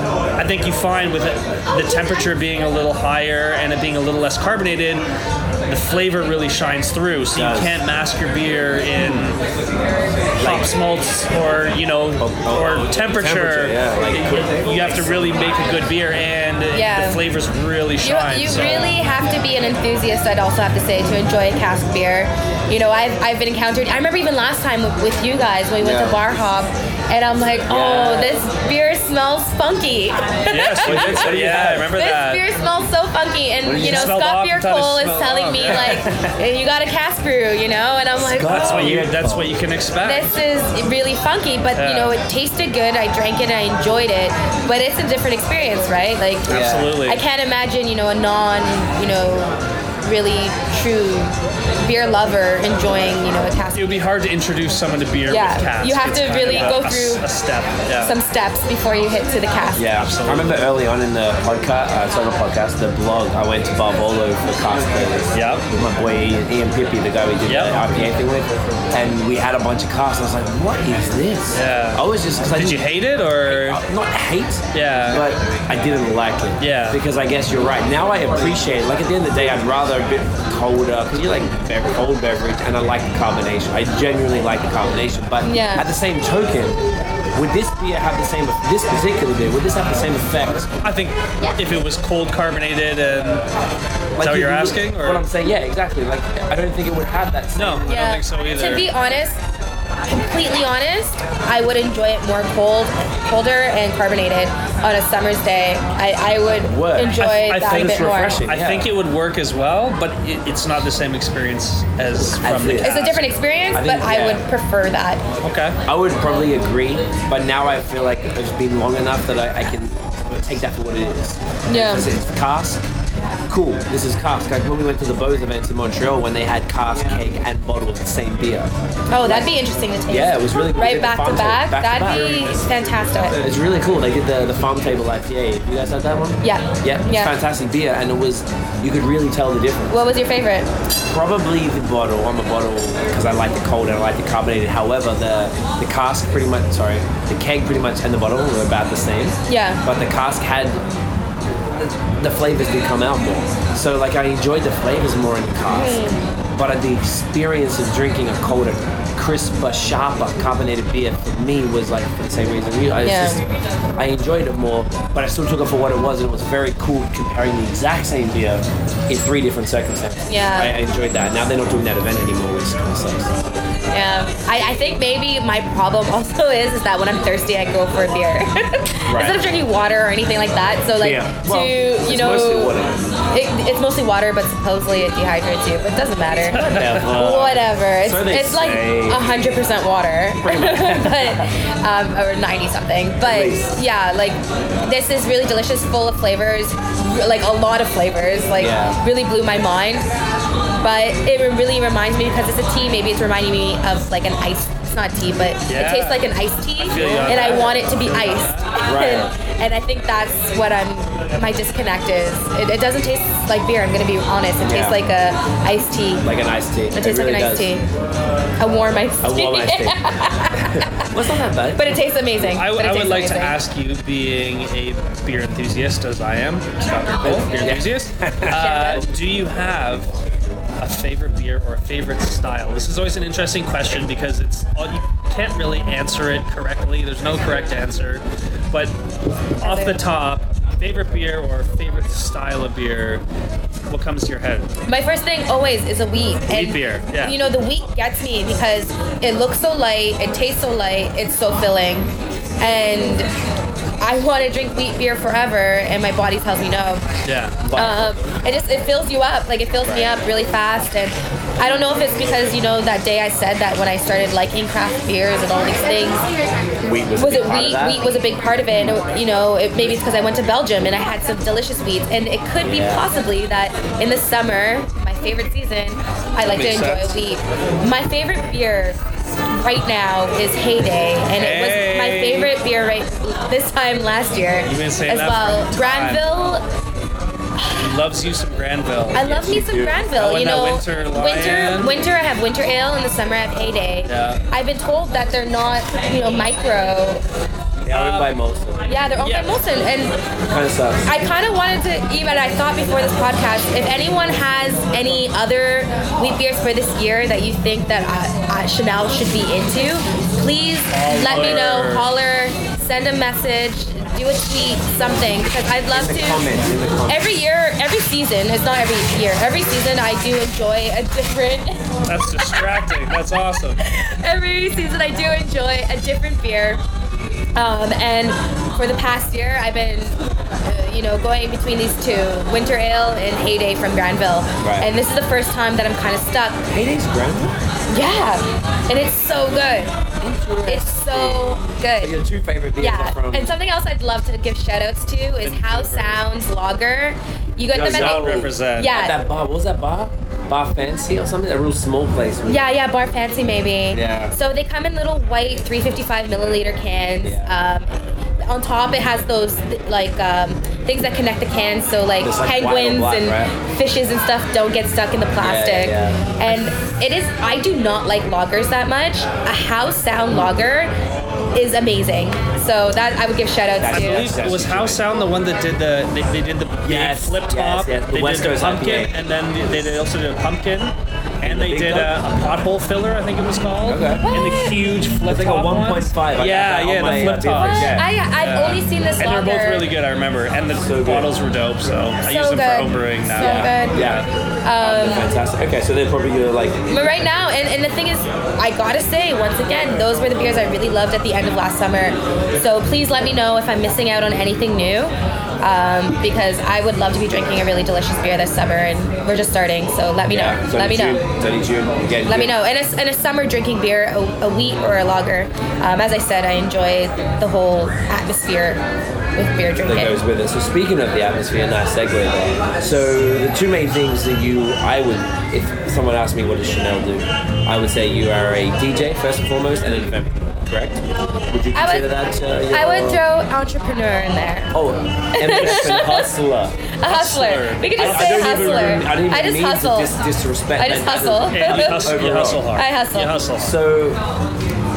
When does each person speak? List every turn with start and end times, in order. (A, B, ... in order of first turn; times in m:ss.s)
0:00.4-0:05.0 A
0:05.7-0:09.4 A
0:07.3-0:07.8 B
0:09.0-0:09.3 B
0:10.4-0:10.7 B
0:10.4-0:18.9 A
0:12.2-0:15.4 B
0:16.7-0:17.2 C
0:18.0-0:31.4 C
0:25.8-0:26.2 B
0:27.7-0:28.3 B
0:30.5-0:32.4 A
0:30.8-0:31.9 B
0:31.9-0:39.0 C
0:33.6-0:34.1 B
0:33.8-0:36.0 A
0:35.6-0:36.3 B
0:38.2-0:39.5 B
0:38.5-0:40.4 A
0:40.0-0:54.0 C
0:41.8-0:42.2 A
0:46.5-0:47.2 A
0:46.5-0:46.9 B
0:53.7-0:58.1 A
0:55.3-0:57.2 C
0:56.4-0:56.8 B
0:58.0-0:59.9 C
0:59.7-1:12.8 B
0:59.9-1:00.7 A
1:05.3-1:05.6 A
1:07.4-1:07.8 A
1:11.5-1:13.8 A
1:13.5-1:26.8 B
1:14.7-1:15.2 A
1:16.6-1:17.0 A
1:25.4-1:25.8 C
1:27.3-1:30.7 B
1:30.8-1:33.4 A
1:34.1-1:38.0 B
1:34.2-1:35.3 A
1:37.6-1:38.9 A
1:37.9-1:39.4 C
1:40.0-1:48.4 C
1:46.6-1:48.9 B
1:47.2-1:53.3 A
1:52.2-1:53.0 B
1:52.8-1:55.2 C
1:53.7-1:54.4 B
1:55.4-1:55.8 A
1:55.8-2:02.8 B
2:01.7-2:02.1 C
2:03.5-2:09.5 B
2:09.1-2:13.4 C
2:10.1-2:20.0 B
2:16.4-2:17.3 C
2:19.9-2:20.7 C
2:21.0-2:30.8 B
2:29.5-2:29.8 C
2:31.7-2:36.0 B
2:35.7-2:36.3 C
2:36.5-2:43.4 B
2:43.0-2:43.4 C
2:44.0-2:53.4 B
2:50.3-2:50.8 C
2:53.9-3:02.7 C
2:59.1-2:59.4 B
3:01.0-3:03.0 B
3:03.3-3:20.1 C
3:06.5-3:07.0 A
3:06.6-3:09.2 B
3:10.4-3:11.4 B
3:13.2-3:13.7 B
3:18.6-3:19.0 B
3:20.8-3:36.3 C
3:25.7-3:28.7 A
3:26.9-3:27.8 B
3:28.7-3:29.3 B
3:34.6-3:35.0 B
3:36.2-3:37.7 B
3:36.9-3:37.8 C
3:38.6-3:41.1 C
3:39.2-3:40.0 B
3:40.6-3:41.9 B
3:41.7-3:43.6 C
3:42.4-3:50.1 A
3:47.2-3:48.6 B
3:48.5-3:49.0 C
3:50.8-3:58.9 A
3:59.6-4:03.2 A
3:59.6-4:00.0 C
4:03.9-4:04.7 A
4:04.9-4:13.3 C
4:06.5-4:07.4 A
4:14.0-4:17.0 C
4:17.2-4:17.6 A
4:17.6-4:18.1 B
4:17.7-4:26.3 C
4:26.8-4:28.0 B
4:27.2-4:39.0 C
4:32.6-4:33.0 B
4:36.4-4:37.2 A
4:39.6-4:46.6 C
4:41.3-4:42.5 A
4:44.6-4:46.6 A
4:47.8-4:52.0 A
4:49.1-4:57.2 C
4:49.4-4:50.0 B
4:54.0-4:54.4 A
4:57.8-4:58.9 B
4:57.9-4:58.3 A
4:58.9-5:00.2 C
4:59.2-4:59.6 A
5:00.5-5:01.2 B
5:01.0-5:16.5 C
5:10.9-5:12.1 A
5:15.9-5:17.3 B
5:17.1-5:21.8 C
5:22.0-5:23.8 A
5:23.8-5:26.8 C
5:27.6-5:36.6 C
5:34.6-5:34.9 B
5:36.7-5:37.6 B
5:37.9-5:39.9 C
5:40.2-5:43.6 B
5:40.7-5:42.2 C
5:42.8-5:49.2 C
5:45.4-5:46.2 A
5:47.7-5:52.6 B
5:47.7-5:48.9 A
5:52.5-5:57.9 C
5:53.9-5:54.3 B
5:57.2-5:57.5 B
5:58.4-6:10.9 C
6:02.2-6:03.5 B
6:05.4-6:06.3 B
6:11.5-6:14.3 C
6:13.8-6:15.1 B
6:13.9-6:34.3 A
6:16.8-6:19.1 B
6:21.4-6:22.2 B
6:23.8-6:24.2 B
6:24.2-6:24.9 C
6:25.2-6:28.1 B
6:27.4-6:29.9 C
6:30.8-6:31.3 B
6:32.2-6:35.3 C
6:33.4-6:34.2 B
6:34.8-6:37.0 B
6:36.9-6:51.2 C
6:50.3-6:52.5 B
6:52.3-6:58.8 C
6:59.4-7:00.2 C
6:59.8-7:13.2 B
7:11.7-7:12.1 C
7:12.7-7:14.7 C
7:14.7-7:16.8 B
7:15.3-7:16.3 C
7:15.6-7:15.9 A
7:17.0-7:20.1 C
7:17.0-7:18.9 A
7:18.0-7:22.6 B
7:20.8-7:23.4 C
7:21.5-7:23.7 A
7:23.6-7:24.2 B